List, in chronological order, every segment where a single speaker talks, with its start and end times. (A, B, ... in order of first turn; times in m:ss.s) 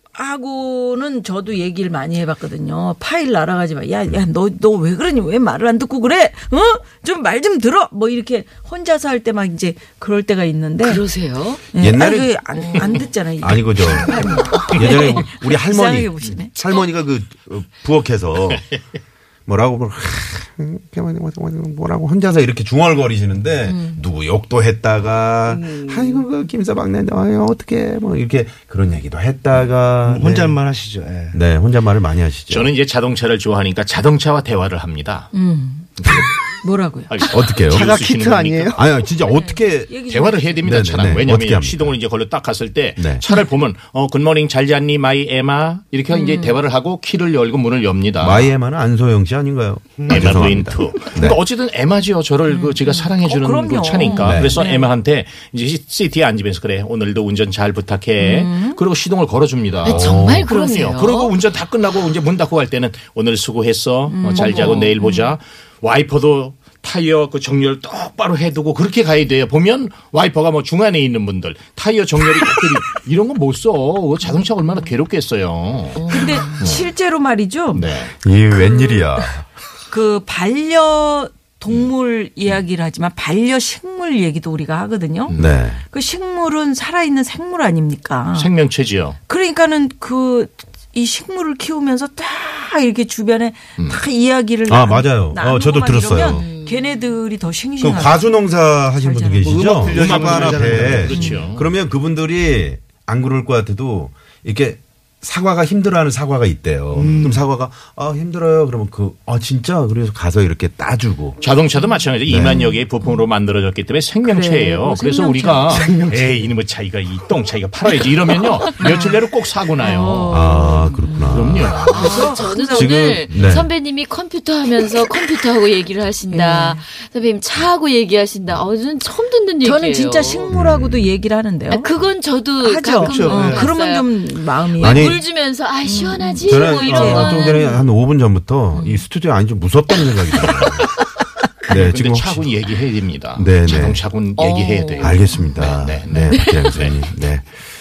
0:00.1-0:11.1 A
0:10.8-0:11.6 B
0:11.7-0:16.5 A
0:11.8-0:12.4 C
0:13.4-0:18.7 C
0:19.5-0:30.6 C
0:23.7-0:24.0 A
0:25.5-0:26.2 B
0:30.1-0:31.4 D
0:31.3-0:32.7 C
0:32.5-0:35.3 E
0:35.3-0:37.2 A
0:36.0-0:36.3 E
0:37.1-0:38.8 E
0:37.3-0:37.9 C
0:37.7-0:38.8 D
0:38.7-0:40.0 C
0:39.2-0:40.8 A
0:40.1-0:48.5 E
0:40.6-0:42.0 C
0:43.0-0:43.2 C
0:46.1-0:46.6 A
0:48.2-0:51.4 C
0:50.1-1:16.9 E
0:52.5-0:54.9 A
0:54.2-0:54.6 C
0:58.2-0:58.8 A
0:59.8-1:01.4 B
0:59.8-1:00.5 C
1:04.1-1:05.0 A
1:04.8-1:05.3 B
1:16.0-1:16.6 B
1:16.1-1:17.9 A
1:17.7-1:18.1 E
1:18.2-1:19.4 C
1:18.6-1:19.0 A
1:19.9-1:28.5 A
1:25.3-1:25.6 E
1:25.4-1:25.8 C
1:28.3-1:29.2 E
1:29.3-1:39.9 A
1:33.8-1:34.0 E
1:34.7-1:36.5 C
1:36.2-1:37.1 B
1:37.8-1:51.4 C
1:39.4-1:41.3 D
1:39.9-1:41.8 E
1:41.1-1:41.4 A
1:46.9-1:47.4 D
1:51.4-2:00.5 E
1:52.3-1:52.7 C
1:54.2-1:55.9 A
1:55.8-1:56.4 D
1:59.8-2:03.1 A
2:00.3-2:03.7 C
2:01.3-2:02.2 E
2:01.8-2:10.5 B
2:06.3-2:06.8 A
2:09.6-2:11.9 A
2:10.5-2:11.2 C
2:11.7-2:17.9 B
2:12.6-2:15.2 A
2:13.0-2:13.7 D
2:14.8-2:15.2 C
2:15.8-2:17.8 A
2:16.4-2:20.9 C
2:18.8-2:19.0 B
2:21.6-2:22.5 C
2:21.7-2:27.0 E
2:23.4-2:24.0 C
2:24.4-2:26.8 B
2:25.0-2:27.5 C